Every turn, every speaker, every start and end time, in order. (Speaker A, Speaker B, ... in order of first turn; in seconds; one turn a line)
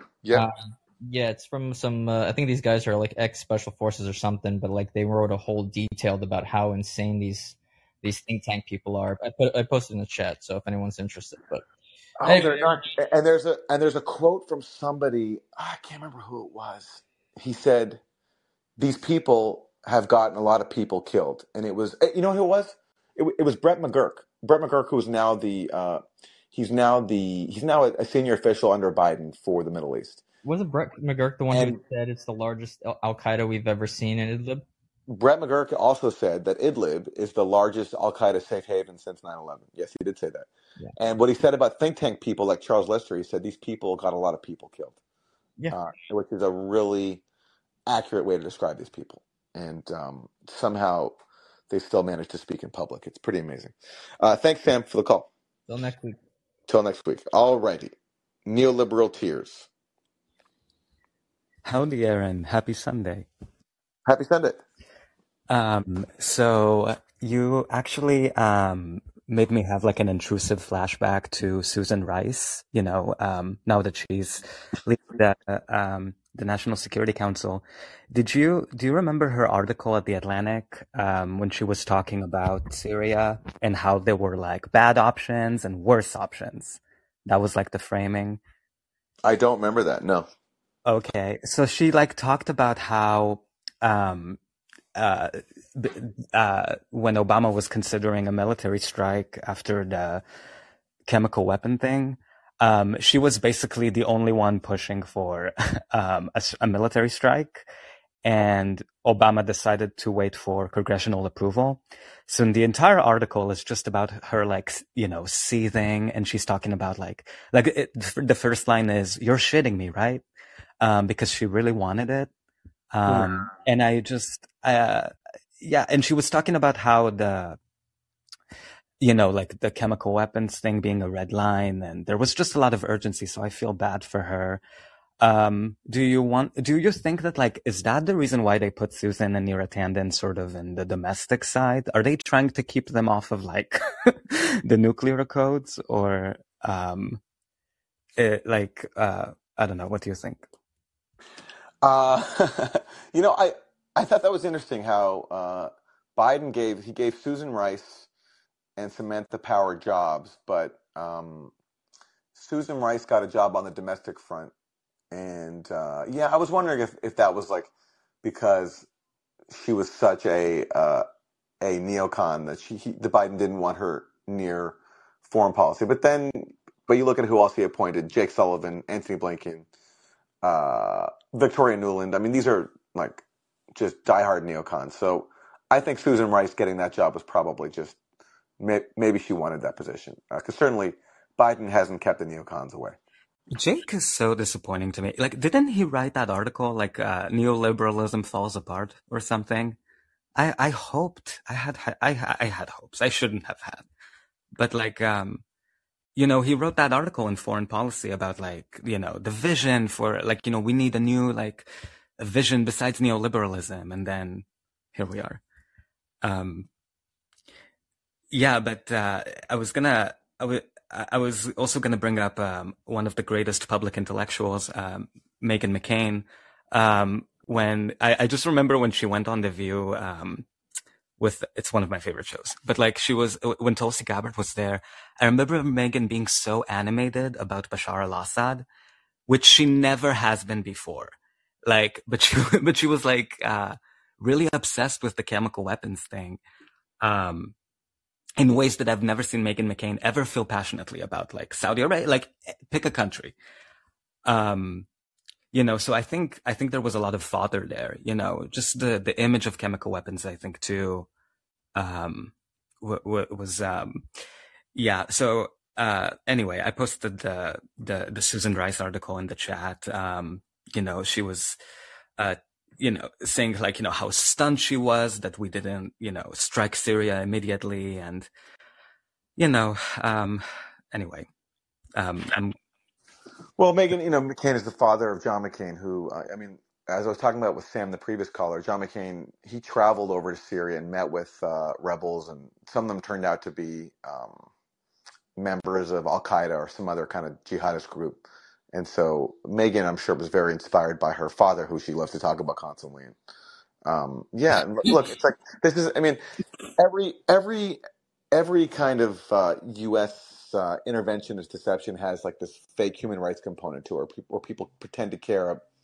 Speaker A: 0.3-11.6
Speaker B: 12.2-18.0
Speaker A: 12.2-12.9
Speaker B: 18.8-26.0
Speaker B: 26.5-30.2
Speaker A: 30.4-34.6
Speaker B: 31.5-31.8
Speaker B: 35.1-44.9
Speaker B: 45.7-47.2
Speaker B: 47.9-51.2
Speaker B: 51.7-55.3
Speaker A: 55.7-56.2
Speaker B: 56.7-57.9
Speaker B: 58.5-59.7
Speaker C: 61.6-63.3
Speaker B: 64.0-64.6
Speaker C: 65.5-88.4
Speaker B: 89.2-90.3
Speaker C: 90.8-94.4
Speaker C: 95.0-100.2
Speaker C: 101.1-107.6
Speaker C: 108.2-120.2
Speaker C: 120.8-122.3
Speaker C: 122.9-127.6
Speaker C: 129.0-134.6
Speaker C: 135.2-147.2
Speaker C: 148.2-150.5
Speaker B: 151.8-158.1
Speaker B: 158.8-161.5
Speaker B: 162.3-164.5
Speaker B: 165.1-167.7
Speaker B: 168.2-168.8
Speaker B: 169.5-171.1
Speaker B: 171.6-179.7
Speaker B: 180.4-183.2
Speaker B: 183.7-188.0
Speaker B: 188.6-192.9
Speaker C: 193.5-199.8
Speaker C: 200.4-203.8
Speaker C: 204.6-205.4
Speaker C: 206.2-211.7
Speaker C: 212.2-215.4
Speaker C: 216.2-216.7
Speaker C: 218.3-230.4
Speaker C: 231.2-238.6
Speaker C: 239.3-241.1
Speaker C: 241.7-246.4
Speaker C: 247.0-247.5
Speaker C: 248.4-253.3
Speaker C: 254.2-254.8
Speaker C: 255.5-261.1
Speaker C: 261.8-264.1
Speaker C: 264.7-271.6
Speaker C: 272.2-278.3
Speaker C: 279.4-281.3
Speaker C: 282.0-282.5
Speaker B: 283.6-294.5
Speaker B: 295.4-303.1
Speaker B: 303.8-306.2
Speaker B: 306.8-307.8
Speaker B: 308.3-315.6